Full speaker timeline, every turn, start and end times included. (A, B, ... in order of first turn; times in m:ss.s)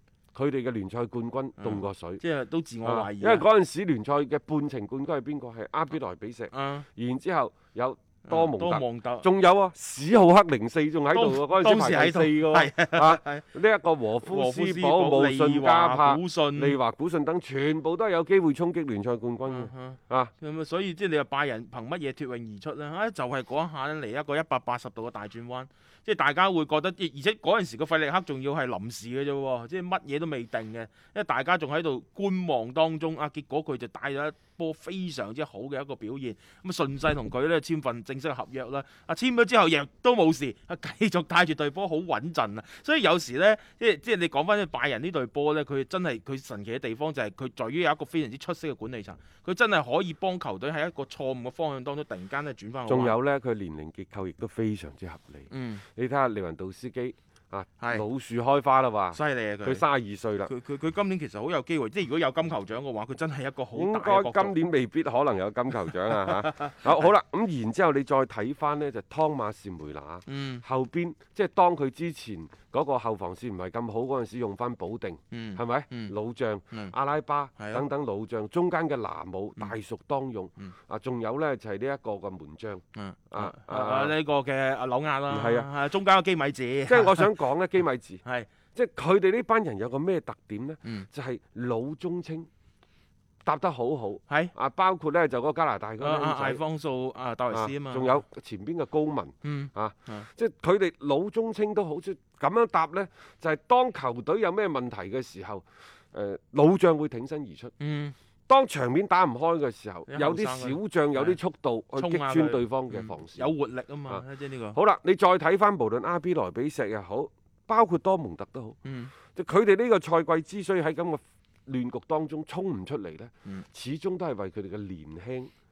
0:00.3-0:02.2 A
0:01.6-0:03.4 B
0:02.8-0:20.3 A
0:06.5-0:06.8 B
0:08.2-0:09.3 B
0:11.1-0:13.4 B
0:14.2-0:16.8 B
0:19.4-0:53.2 B
0:52.8-1:00.5 A
0:55.5-0:55.8 B
0:57.8-0:58.0 B
0:59.1-0:59.8 B
1:00.4-1:04.6 B
1:03.7-1:24.2 A
1:06.3-1:06.7 B
1:10.3-1:10.6 B
1:15.3-1:16.1 B
1:17.6-1:17.8 B
1:22.9-1:27.3 B
1:25.3-1:25.7 A
1:26.9-1:28.2 A
1:28.2-1:28.5 B
1:28.7-1:32.5 A
1:33.4-1:36.6 A
1:36.0-1:38.2 B
1:37.5-1:47.7 A
1:39.4-1:40.3 B
1:47.8-1:48.1 B
1:48.5-1:53.5 A
1:50.1-1:51.4 B
1:51.9-1:54.8 B
1:54.1-1:58.8 A
1:58.8-1:59.1 B
1:59.3-2:05.5 A